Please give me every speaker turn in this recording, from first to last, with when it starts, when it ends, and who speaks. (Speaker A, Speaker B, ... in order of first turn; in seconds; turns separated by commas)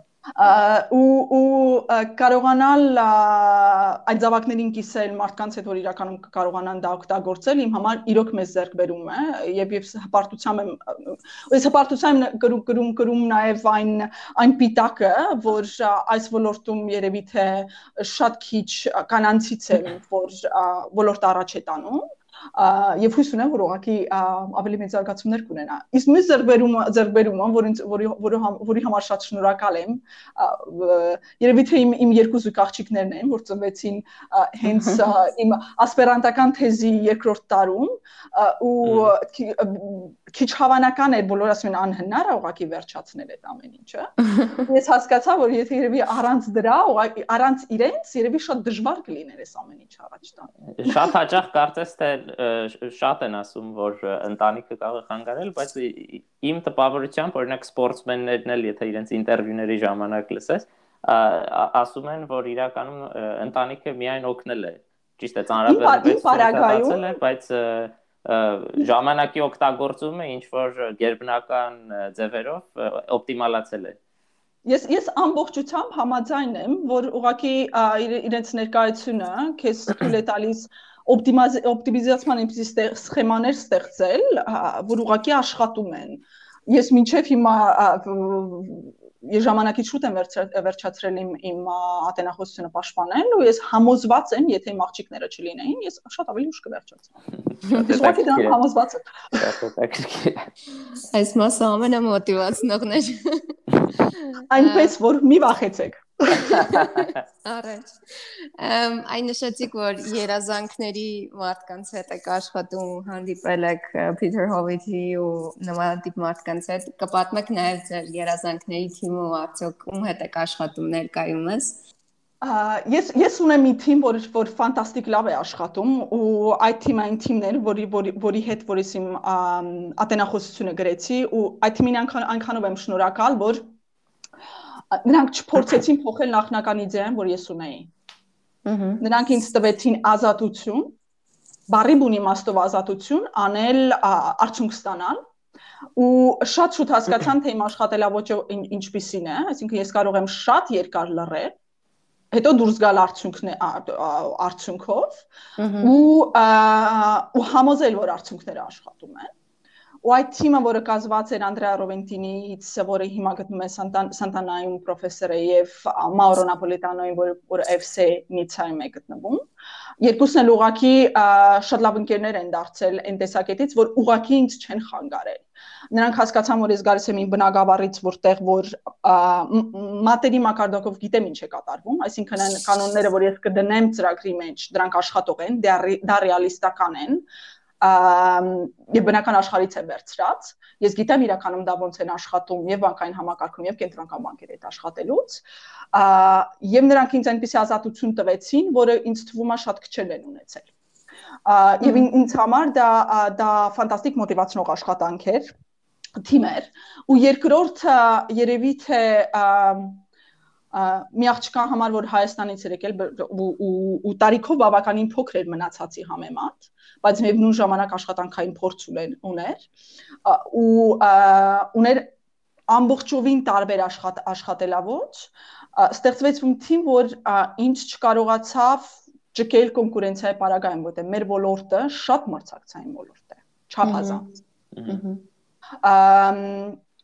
Speaker A: 0.4-50.5, Speaker B: 38.8-39.1, Speaker B: 50.7-74.0, Speaker A: 65.7-67.1, Speaker A: 74.7-97.2, Speaker B: 97.5-98.6, Speaker A: 97.7-99.4, Speaker B: 99.3-100.5, Speaker C: 101.1-103.5, Speaker C: 104.3-104.9, Speaker A: 104.5-106.7, Speaker B: 106.5-107.0, Speaker C: 106.6-121.8, Speaker A: 122.4-133.6, Speaker A: 134.9-137.9, Speaker C: 138.7-138.9, Speaker A: 139.0-140.9, Speaker A: 141.7-145.2, Speaker A: 146.0-151.5, Speaker A: 152.3-155.2, Speaker C: 155.6-155.9, Speaker A: 155.8-159.3, Speaker A: 160.0-169.4, Speaker A: 170.0-187.2, Speaker A: 187.8-195.4, Speaker A: 195.9-200.7, Speaker A: 201.4-205.5, Speaker A: 206.2-210.0, Speaker A: 210.7-219.7, Speaker A: 220.2-222.1, Speaker A: 222.7-234.2, Speaker B: 234.7-235.0, Speaker A: 235.8-236.8